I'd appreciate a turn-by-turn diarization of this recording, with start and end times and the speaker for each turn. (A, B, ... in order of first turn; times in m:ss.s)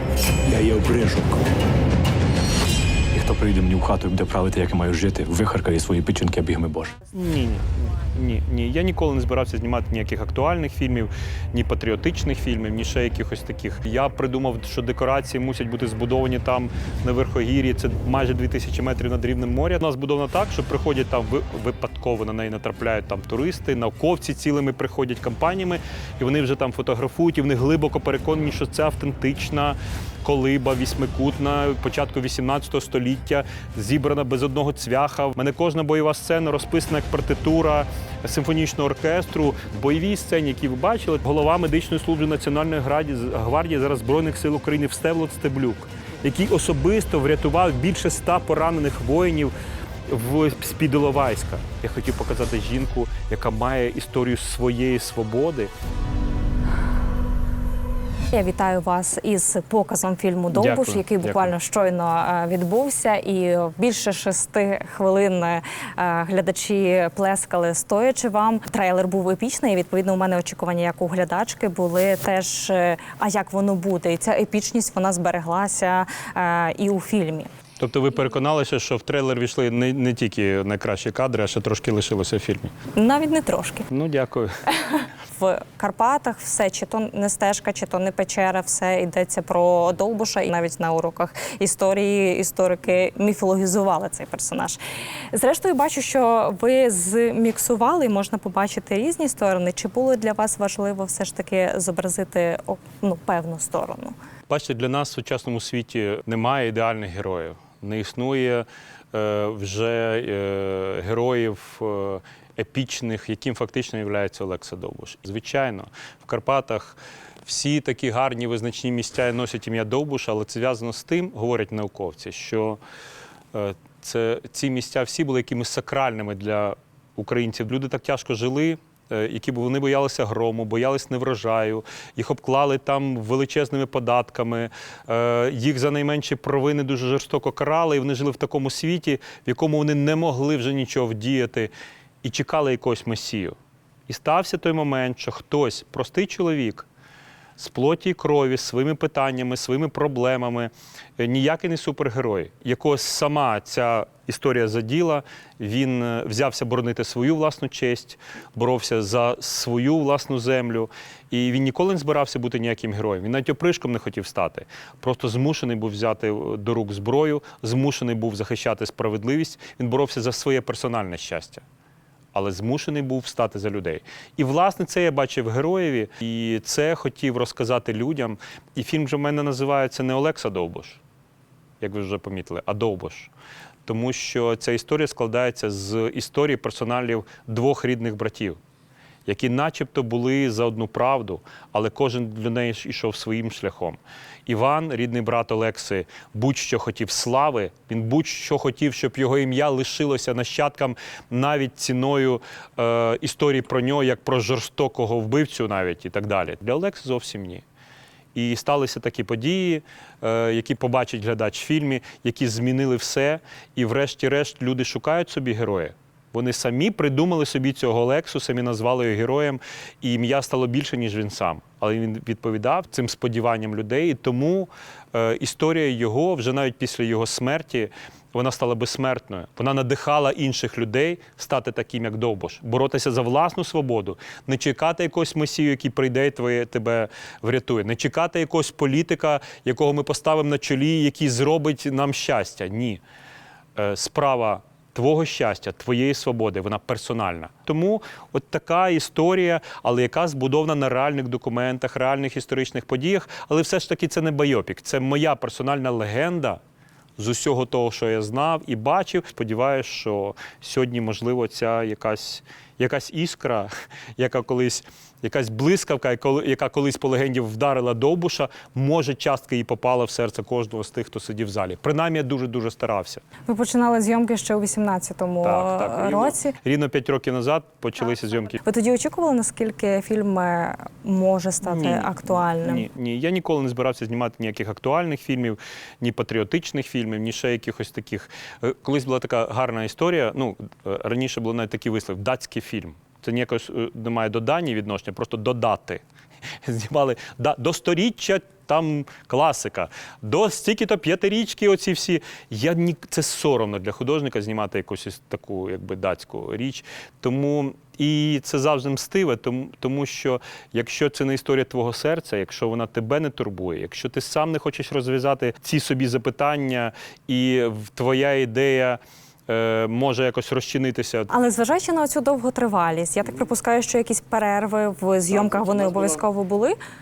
0:00.4-0:01.4 A
0:03.1-0:06.9 A
0:07.1-0:49.5 B
0:50.1-0:55.7 B
0:58.3-1:17.5 C
1:00.5-1:01.5 B
1:17.8-1:22.7 B
1:23.0-1:23.8 C
1:23.9-1:24.6 B
1:25.4-1:34.8 C
1:35.3-1:44.1 C
1:44.5-2:02.8 B
2:03.5-2:21.7 B
2:22.2-2:23.6 B
2:24.1-2:26.9 B
2:27.6-2:51.6 B
2:52.3-3:01.0 B
3:01.8-3:03.3 B
3:03.8-3:08.6 B
3:09.2-3:27.6 B
3:28.3-4:03.0 B
4:03.8-4:16.6 B
4:17.2-4:33.2 B
4:33.5-4:36.5 C
4:35.4-4:38.6 B
4:38.6-4:42.8 C
4:41.6-4:56.0 B
4:56.6-5:21.3 B
5:21.3-5:26.8 C
5:25.3-5:26.2 B